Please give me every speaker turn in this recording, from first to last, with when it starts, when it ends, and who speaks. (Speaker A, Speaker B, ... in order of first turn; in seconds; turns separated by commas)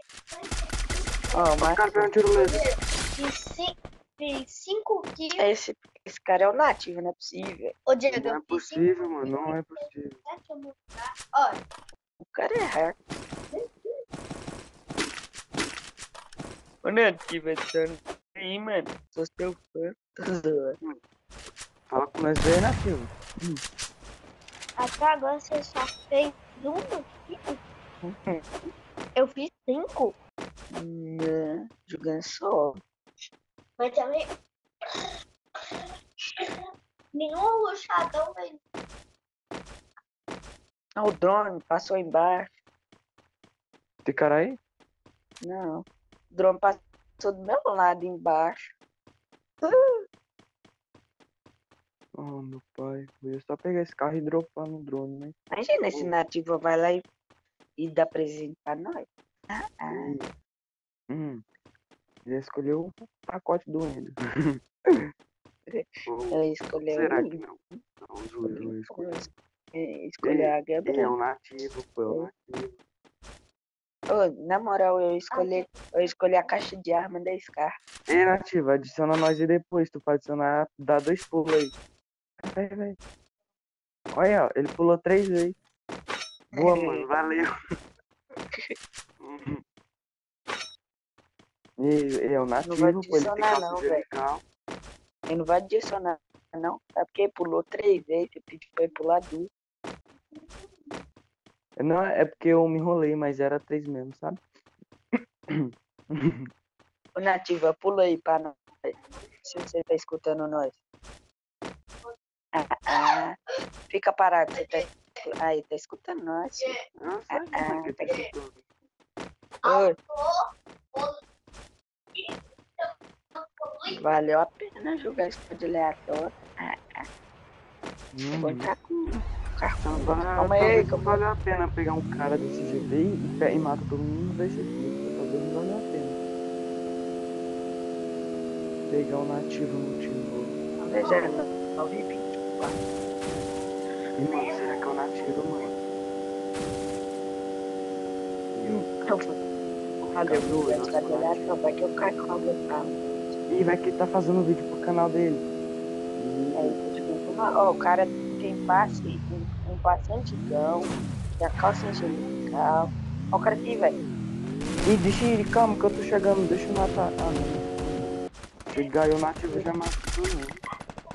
Speaker A: 0.3-1.6, Speaker B: 1.4-2.6, Speaker C: 1.4-2.1, Speaker A: 2.4-5.5, Speaker C: 5.4-7.7, Speaker A: 7.9-11.6, Speaker B: 8.1-10.2, Speaker C: 12.2-13.0, Speaker C: 16.8-20.8, Speaker B: 21.9-23.6, Speaker A: 24.8-27.6, Speaker B: 28.1-28.4, Speaker A: 29.2-30.1, Speaker C: 30.7-32.8, Speaker A: 33.8-34.3, Speaker A: 37.1-38.6, Speaker C: 41.0-42.5, Speaker B: 44.0-44.6, Speaker C: 45.4-48.7, Speaker C: 49.6-50.0, Speaker B: 52.2-55.4, Speaker C: 55.5-57.0, Speaker C: 57.8-60.1, Speaker B: 59.9-60.3, Speaker B: 61.1-61.4, Speaker B: 62.3-64.5, Speaker C: 65.7-67.4, Speaker B: 66.1-69.2, Speaker C: 68.5-71.2, Speaker B: 70.2-72.8, Speaker C: 74.1-77.7, Speaker A: 75.3-75.9, Speaker B: 78.1-81.7, Speaker B: 82.4-83.0, Speaker B: 84.1-85.5, Speaker B: 86.5-87.5, Speaker C: 86.6-87.0, Speaker B: 89.2-89.6, Speaker B: 91.8-94.4, Speaker C: 92.6-94.0, Speaker C: 95.3-99.5, Speaker B: 101.8-104.4, Speaker B: 105.5-106.5, Speaker C: 107.2-108.9, Speaker C: 109.5-110.8, Speaker C: 112.5-113.3, Speaker C: 113.9-116.8, Speaker B: 117.0-118.6, Speaker C: 117.3-118.2, Speaker A: 119.6-121.2, Speaker C: 119.7-119.9, Speaker A: 123.4-124.0, Speaker C: 123.9-127.0, Speaker B: 128.1-128.7, Speaker C: 128.4-131.2, Speaker B: 129.8-136.2, Speaker B: 138.9-140.6, Speaker C: 140.8-142.8, Speaker B: 144.2-145.7, Speaker B: 148.5-148.9, Speaker C: 148.8-149.2, Speaker B: 150.1-151.5, Speaker C: 150.1-153.4, Speaker B: 153.5-155.4, Speaker B: 156.2-156.8, Speaker C: 156.6-164.0, Speaker B: 164.8-170.6